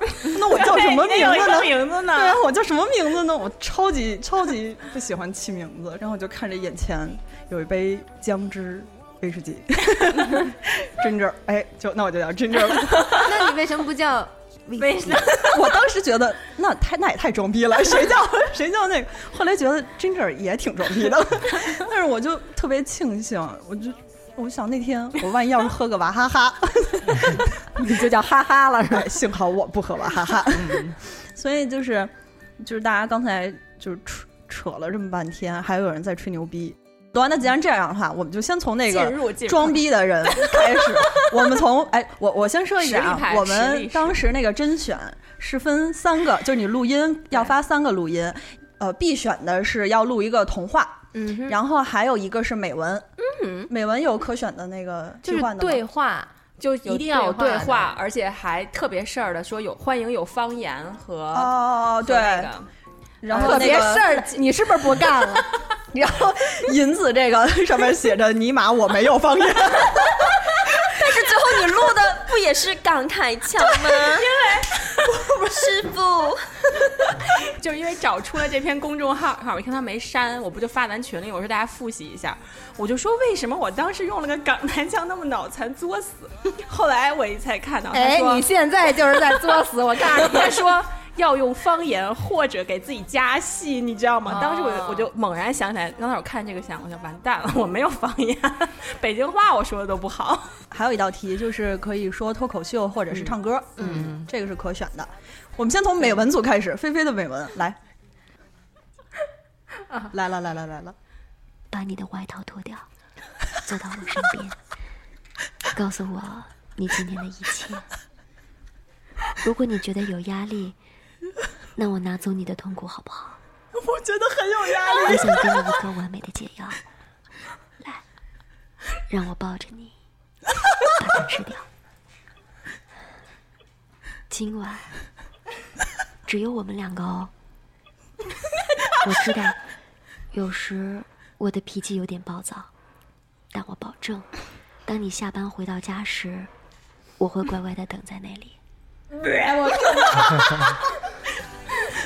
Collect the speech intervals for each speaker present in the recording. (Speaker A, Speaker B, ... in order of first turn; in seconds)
Speaker A: 0.2-13.3, 15.5-28.1, 28.9-53.1, 53.7-55.8, 61.3-62.5, 63.2-64.2, 65.9-70.2, 100.7-107.8, 110.1-110.9, 123.7-125.7
Speaker B: 0.3-2.4, 14.8-15.7, 38.9-41.2, 42.8-44.2, 56.8-62.7, 63.3-64.1, 74.0-75.1, 77.3-88.5, 90.0-100.6, 149.7-150.2
Speaker C: 13.2-15.3, 28.2-28.9, 51.1-51.6, 53.2-53.7, 55.2-57.9, 63.3-65.5, 87.9-90.6, 94.3-95.1
Speaker D: 71.0-74.3, 75.4-76.4
Speaker E: 111.7-112.8, 113.7-114.6, 115.7-117.8, 119.4-120.8, 121.8-123.4, 125.0-126.8, 129.1-129.9, 131.0-131.6, 134.3-134.9, 136.3-137.3, 139.0-139.6, 140.3-142.7, 143.5-144.3, 144.8-146.5, 147.2-148.6